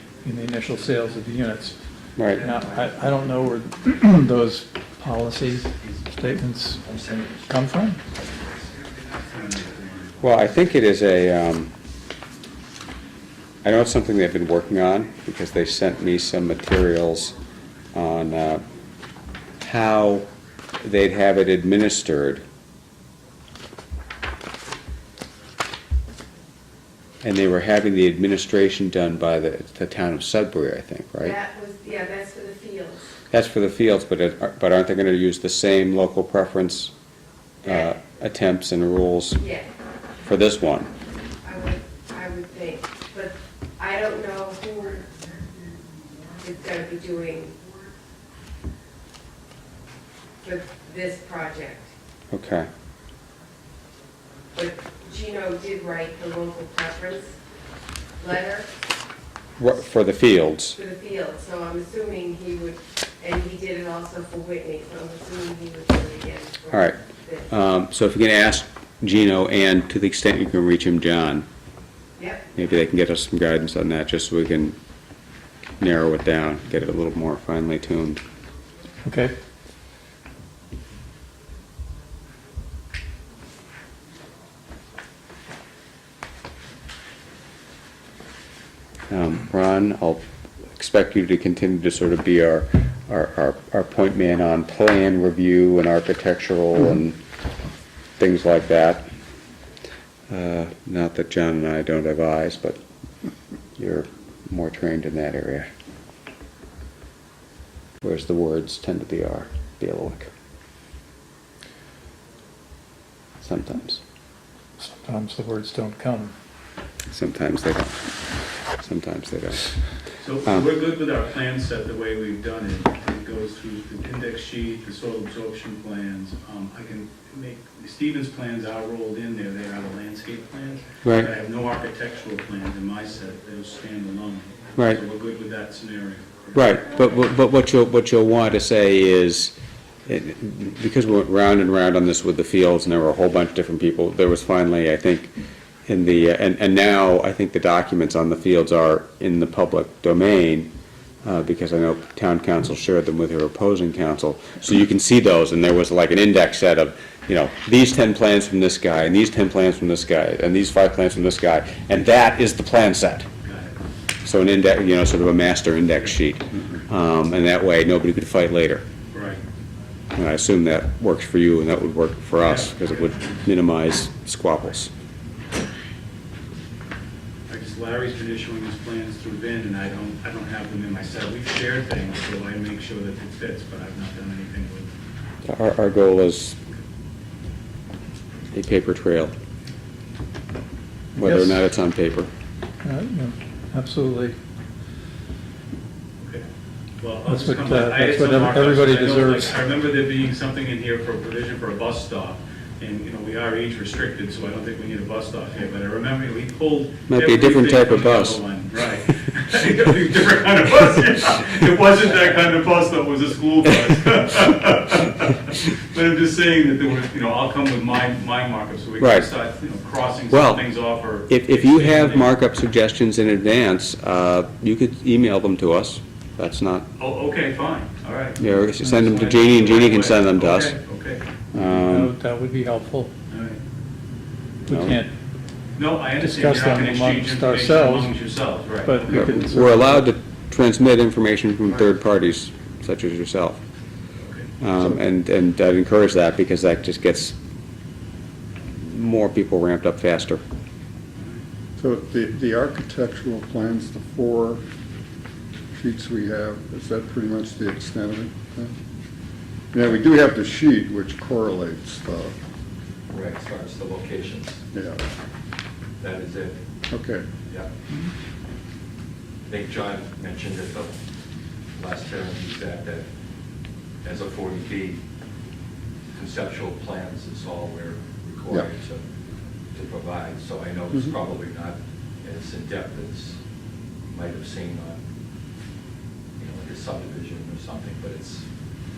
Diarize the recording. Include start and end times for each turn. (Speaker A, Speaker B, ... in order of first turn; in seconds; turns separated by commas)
Speaker A: 0.2-1.8, Speaker B: 2.2-2.4, Speaker C: 2.3-3.2, Speaker A: 2.4-6.8, Speaker C: 5.1-6.1, Speaker C: 6.8-7.5, Speaker A: 7.5-8.0, Speaker C: 8.1-8.8, Speaker D: 9.2-10.2, Speaker B: 10.2-11.7, Speaker B: 13.6-17.3, Speaker B: 17.9-18.6, Speaker B: 19.6-20.3, Speaker B: 20.8-22.4, Speaker B: 27.2-31.4, Speaker E: 31.2-33.1, Speaker B: 33.3-36.9, Speaker E: 37.6-37.9, Speaker B: 37.6-39.4, Speaker E: 39.4-39.7, Speaker B: 40.2-40.9, Speaker E: 41.4-45.3, Speaker E: 46.4-47.7, Speaker E: 50.4-51.9, Speaker B: 52.3-52.7, Speaker E: 54.5-57.4, Speaker E: 58.2-58.7, Speaker B: 59.6-60.8, Speaker E: 60.7-67.5, Speaker B: 66.7-67.0, Speaker B: 67.5-71.5, Speaker E: 72.2-72.5, Speaker B: 72.5-74.8, Speaker B: 75.8-78.2, Speaker A: 79.0-79.3, Speaker B: 89.1-97.2, Speaker B: 98.2-99.0, Speaker B: 100.3-102.8, Speaker B: 103.8-105.7, Speaker B: 108.0-110.3, Speaker B: 113.4-114.0, Speaker A: 114.8-116.3, Speaker B: 117.1-118.1, Speaker B: 118.8-119.8, Speaker D: 120.2-136.8, Speaker B: 131.0-131.3, Speaker B: 134.8-135.0, Speaker B: 136.5-139.5, Speaker B: 140.1-145.3, Speaker B: 145.9-150.7, Speaker B: 151.2-163.3, Speaker D: 163.4-163.8, Speaker B: 164.2-168.8, Speaker D: 169.1-169.4, Speaker B: 170.1-174.9, Speaker D: 172.4-173.3, Speaker D: 177.5-184.9, Speaker B: 185.4-186.6, Speaker B: 188.5-189.3, Speaker B: 191.2-192.3, Speaker A: 191.2-191.6, Speaker A: 192.8-194.3, Speaker D: 197.0-222.3, Speaker A: 197.3-199.5, Speaker B: 207.1-208.4, Speaker B: 219.0-219.3, Speaker B: 220.3-220.6, Speaker B: 221.3-226.9, Speaker D: 227.0-231.2, Speaker B: 228.4-230.8, Speaker B: 231.5-232.1, Speaker A: 231.5-233.1, Speaker D: 233.3-233.6, Speaker B: 234.7-235.0, Speaker A: 234.7-235.1, Speaker D: 235.8-239.5, Speaker A: 236.2-238.1, Speaker A: 238.8-240.1, Speaker B: 239.1-243.6, Speaker D: 244.2-244.5, Speaker B: 244.6-247.3, Speaker B: 248.8-250.4, Speaker F: 251.8-254.6, Speaker F: 255.7-258.7, Speaker F: 259.7-262.3, Speaker C: 263.1-264.6, Speaker F: 264.7-265.0, Speaker C: 266.0-266.6, Speaker F: 266.9-267.3, Speaker C: 269.5-270.9, Speaker C: 271.7-273.1, Speaker C: 274.0-275.0, Speaker C: 276.1-279.0, Speaker C: 279.7-283.4, Speaker C: 284.1-285.0, Speaker C: 286.4-288.4